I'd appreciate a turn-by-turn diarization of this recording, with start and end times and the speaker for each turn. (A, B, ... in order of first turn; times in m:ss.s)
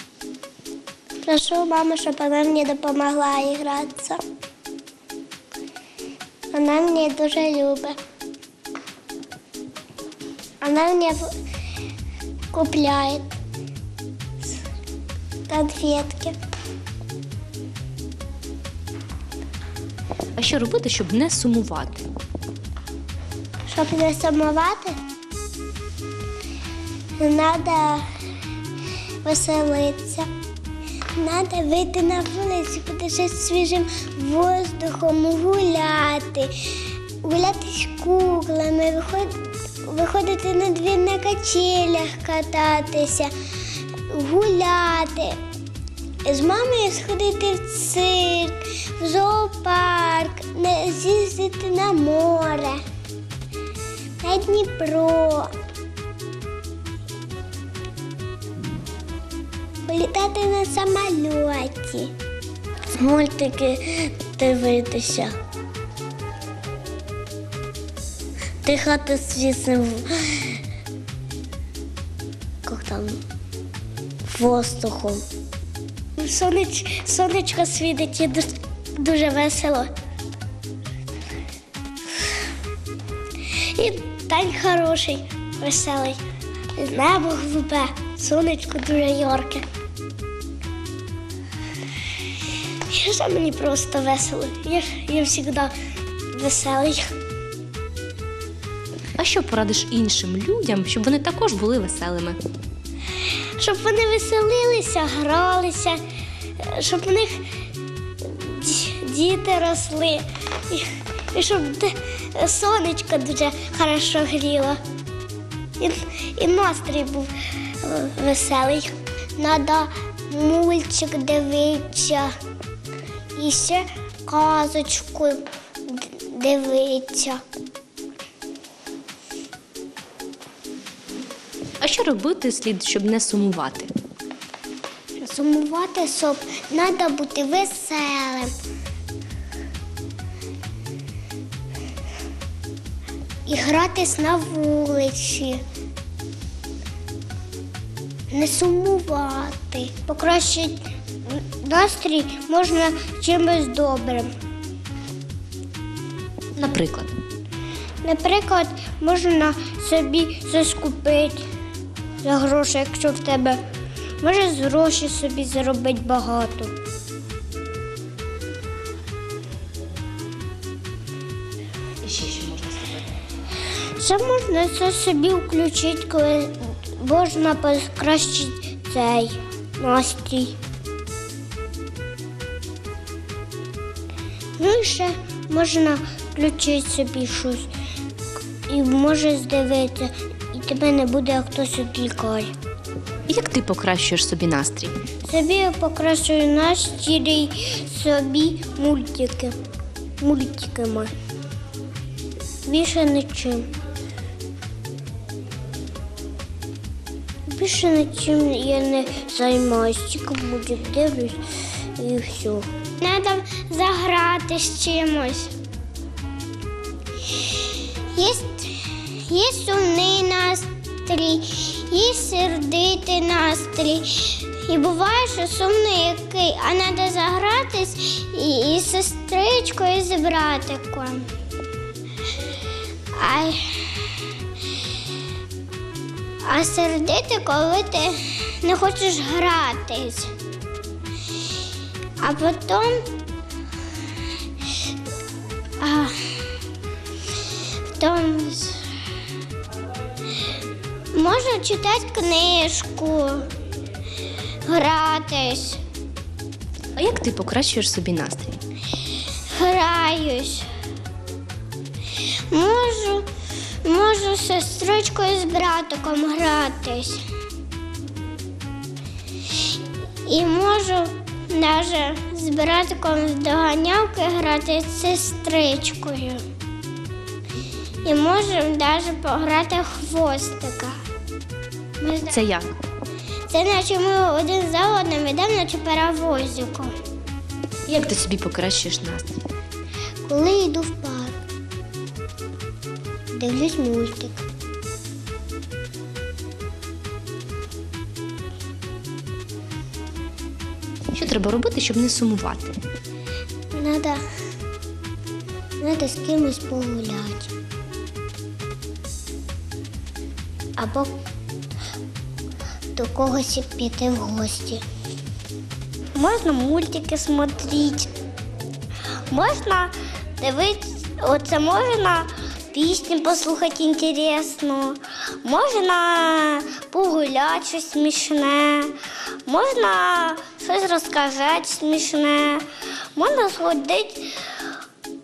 0:01.2-0:04.2 A
0:06.5-0:08.0 A
0:10.6-0:11.3 A
0:12.5-0:13.4 A
0:15.5-0:16.4 A
0:20.4-0:22.0 B
0:23.7-0:25.0 A
0:27.2-0:28.1 A
0:29.2-0:30.3 A
0:31.2-0:43.3 A
0:44.1-0:45.4 A
0:46.2-0:52.8 A
0:54.2-0:55.5 A
0:59.8-1:02.1 A
1:02.9-1:05.4 A
1:08.6-1:10.6 A
1:12.6-1:13.2 A
1:14.2-1:15.3 A
1:16.2-1:19.9 A
1:23.5-1:26.2 A
1:26.8-1:29.6 A
1:32.9-1:35.7 A
1:36.3-1:37.1 A
1:39.2-1:42.4 B
1:43.6-1:46.0 A
1:46.6-1:47.4 A
1:48.2-1:54.8 A
1:55.8-2:02.3 A
2:03.4-2:07.4 A
2:11.8-2:13.9 B
2:15.2-2:18.5 A
2:23.4-2:25.6 A
2:28.3-2:34.3 A
2:36.6-2:37.1 B
2:38.0-2:41.4 A
2:42.2-2:43.6 A
2:44.2-2:46.7 A
2:52.0-2:53.0 B
2:53.9-3:00.6 A
3:04.6-3:07.7 A
3:08.7-3:12.5 A
3:13.3-3:15.0 B
3:15.2-3:19.5 A
3:20.2-3:21.1 A
3:22.6-3:23.7 A
3:27.5-3:31.4 A
3:32.0-3:35.5 A
3:37.3-3:51.3 A
3:53.1-3:54.3 A
3:56.4-4:00.3 A
4:02.2-4:03.1 A
4:05.8-4:06.2 A
4:07.9-4:08.8 A
4:11.1-4:13.5 A
4:14.6-4:15.8 A
4:17.0-4:18.6 B
4:19.5-4:20.7 A
4:22.5-4:23.3 A
4:23.8-4:27.2 A
4:30.2-4:36.4 A
4:38.0-4:41.0 A
4:42.0-4:42.4 A
4:42.3-4:42.7 B
4:43.5-4:46.9 A
4:47.9-4:49.4 B
4:50.2-4:51.4 A
4:53.3-4:54.4 A
5:01.1-5:02.8 B
5:03.7-5:04.2 A
5:05.8-5:07.5 A
5:10.8-5:11.2 A
5:12.9-5:14.8 A
5:16.1-5:18.1 A
5:19.3-5:28.9 A
5:29.4-5:34.5 A